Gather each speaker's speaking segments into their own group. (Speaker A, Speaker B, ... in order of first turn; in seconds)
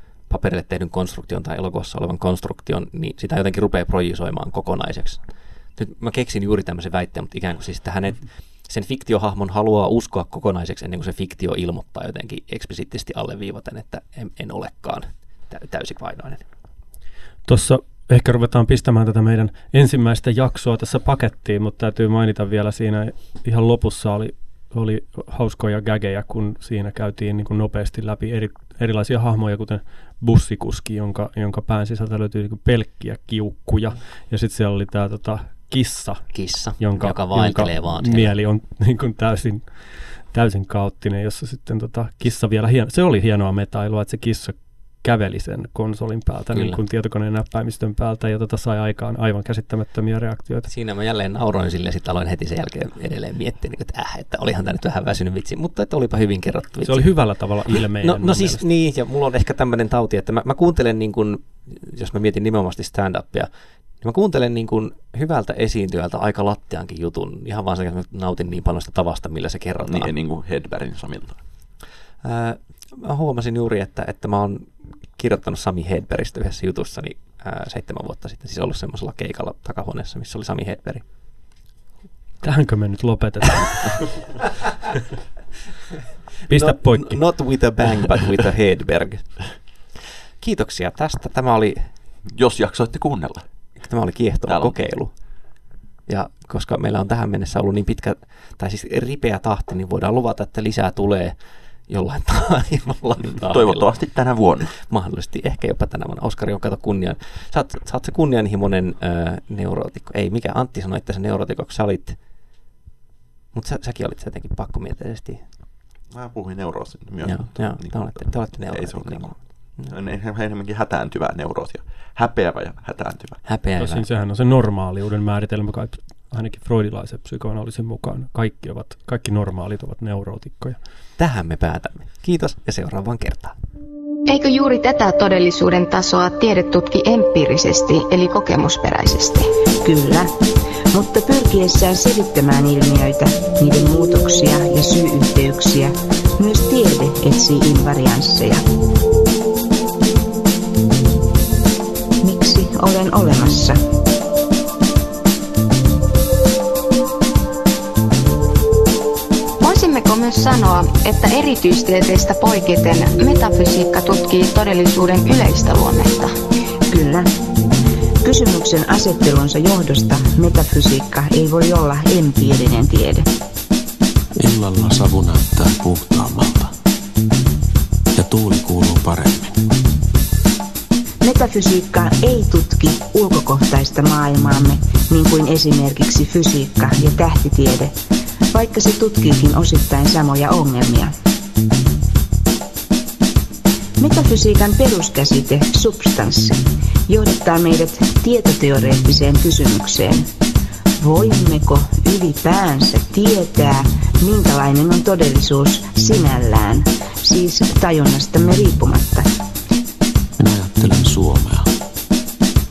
Speaker A: 0.3-5.2, 5.8-16.4, 36.3-38.3, 46.5-46.8, 50.7-57.1, 57.7-63.5, 64.0-70.1, 72.2-81.0, 86.5-89.5, 90.4-91.9, 93.8-95.1, 96.1-101.3, 101.9-103.9, 104.6-112.2, 113.5-115.4, 117.2-119.9, 123.4-124.0, 131.2-133.5
Speaker B: 17.5-36.2, 36.8-39.7, 40.3-50.7, 56.8-58.6, 82.4-84.1, 86.5-87.2, 123.8-130.8
Speaker C: 69.8-71.4, 92.3-93.4, 94.5-94.9, 103.2-104.7, 116.1-123.4
Speaker D: 134.3-139.5, 159.6-166.3
Speaker E: 139.8-140.4, 140.9-148.6, 152.2-153.8, 166.9-167.3, 168.2-173.3, 181.2-187.9, 188.5-191.1, 194.0-200.3, 201.0-209.3
Speaker F: 174.4-176.7, 178.1-179.6, 210.4-211.7